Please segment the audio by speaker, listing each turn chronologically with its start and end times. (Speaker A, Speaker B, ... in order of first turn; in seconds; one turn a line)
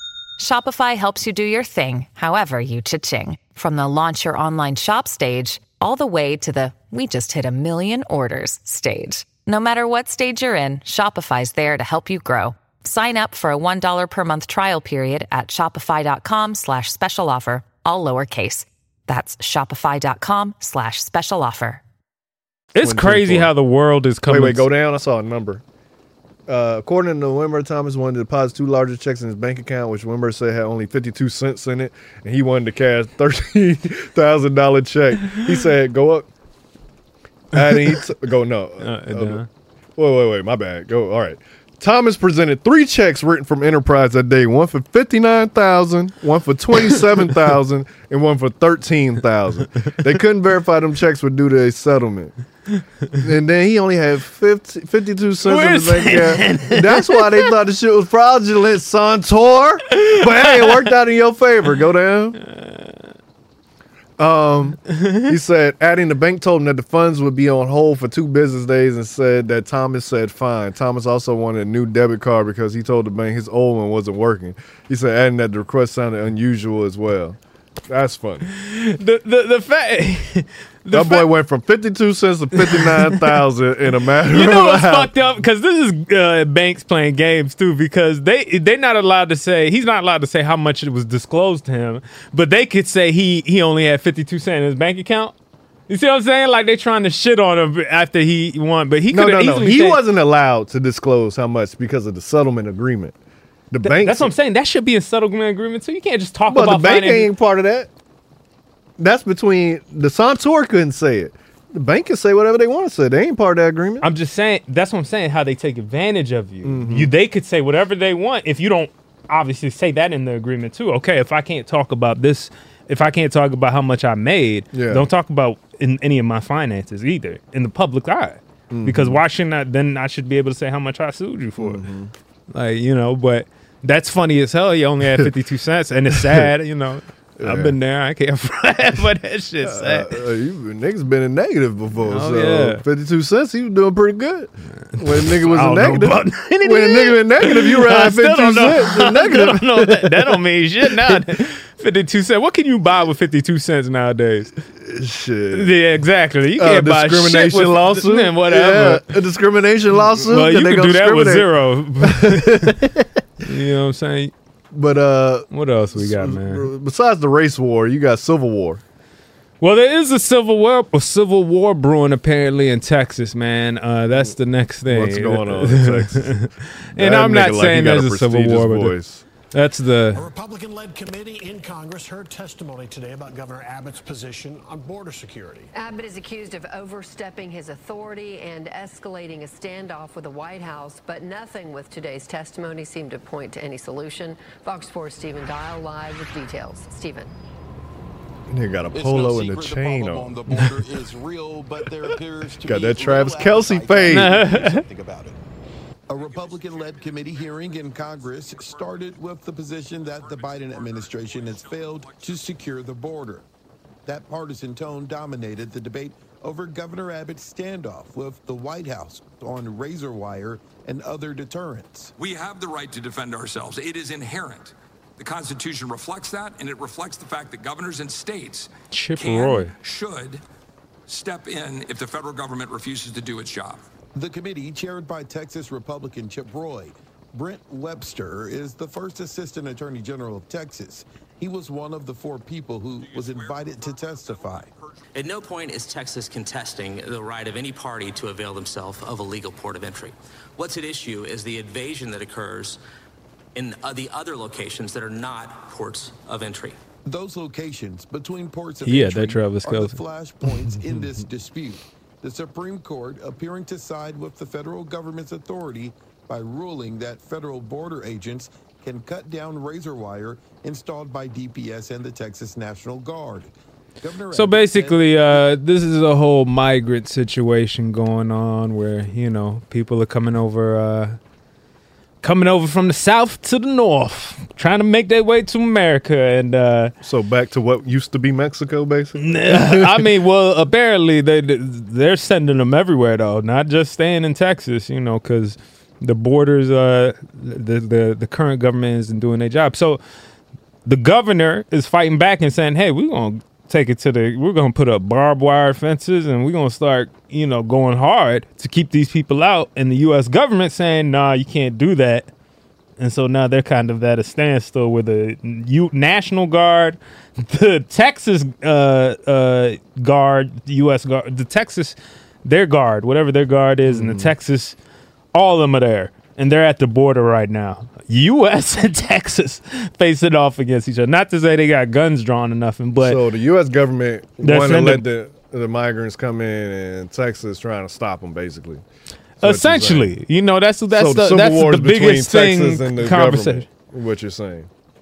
Speaker A: 0.4-21.8
Speaker B: 22.7-24.6
Speaker C: 22.8-23.5
Speaker C: 24.2-25.6
Speaker C: 26.5-36.3
Speaker C: 37.5-39.4
Speaker B: 37.7-38.0
Speaker B: 38.8-39.5
Speaker C: 40.0-52.3
Speaker C: 53.2-62.4
Speaker B: 55.5-57.5
Speaker B: 60.0-60.8
Speaker B: 62.4-62.9
Speaker C: 64.2-78.5
Speaker B: 64.9-65.3
Speaker B: 78.7-81.3
Speaker C: 80.9-85.1
Speaker B: 82.6-83.2
Speaker B: 84.3-95.3
Speaker B: 95.9-100.0
Speaker C: 99.1-103.2
Speaker C: 103.7-104.3
Speaker B: 103.8-107.3
Speaker C: 106.5-107.9
Speaker C: 109.0-114.0
Speaker B: 114.0-131.8
Speaker C: 116.6-117.1
Speaker C: 124.7-125.1
Speaker C: 128.7-129.2
Speaker C: 131.6-132.1
Speaker B: 132.5-140.1
Speaker C: 136.1-136.5
Speaker C: 137.4-137.7
Speaker C: 139.6-150.4
Speaker B: 142.1-142.8
Speaker B: 144.9-154.5
Speaker C: 154.8-155.7
Speaker B: 155.5-159.1
Speaker C: 156.6-161.5
Speaker B: 160.2-162.8
Speaker C: 162.0-163.0
Speaker B: 163.4-164.3
Speaker C: 164.7-168.8
Speaker B: 165.5-166.7
Speaker B: 169.6-178.9
Speaker C: 174.8-176.3
Speaker C: 176.9-179.2
Speaker B: 179.5-180.2
Speaker D: 180.1-185.7
Speaker E: 185.7-197.3
Speaker C: 198.5-200.4
Speaker F: 198.9-205.4
Speaker C: 202.6-204.4
Speaker B: 204.1-204.8
Speaker F: 206.1-213.4
Speaker G: 206.1-209.3
Speaker G: 209.9-212.5
Speaker F: 214.1-222.1
Speaker G: 222.2-230.4
Speaker B: 228.9-229.7
Speaker G: 231.1-233.8
Speaker F: 234.1-244.7
Speaker G: 243.0-244.8
Speaker H: 245.1-252.8
Speaker H: 253.5-256.8
Speaker F: 257.1-275.5
Speaker B: 258.8-260.0
Speaker B: 274.3-281.2
Speaker B: 282.2-286.9
Speaker C: 287.0-290.1
Speaker B: 289.2-300.0
Speaker B: 300.8-312.3
Speaker B: 313.0-324.8
Speaker C: 323.9-324.3
Speaker B: 325.3-333.2
Speaker C: 333.0-338.8
Speaker B: 334.4-335.0
Speaker C: 339.4-340.1
Speaker B: 339.4-343.6
Speaker C: 340.9-344.7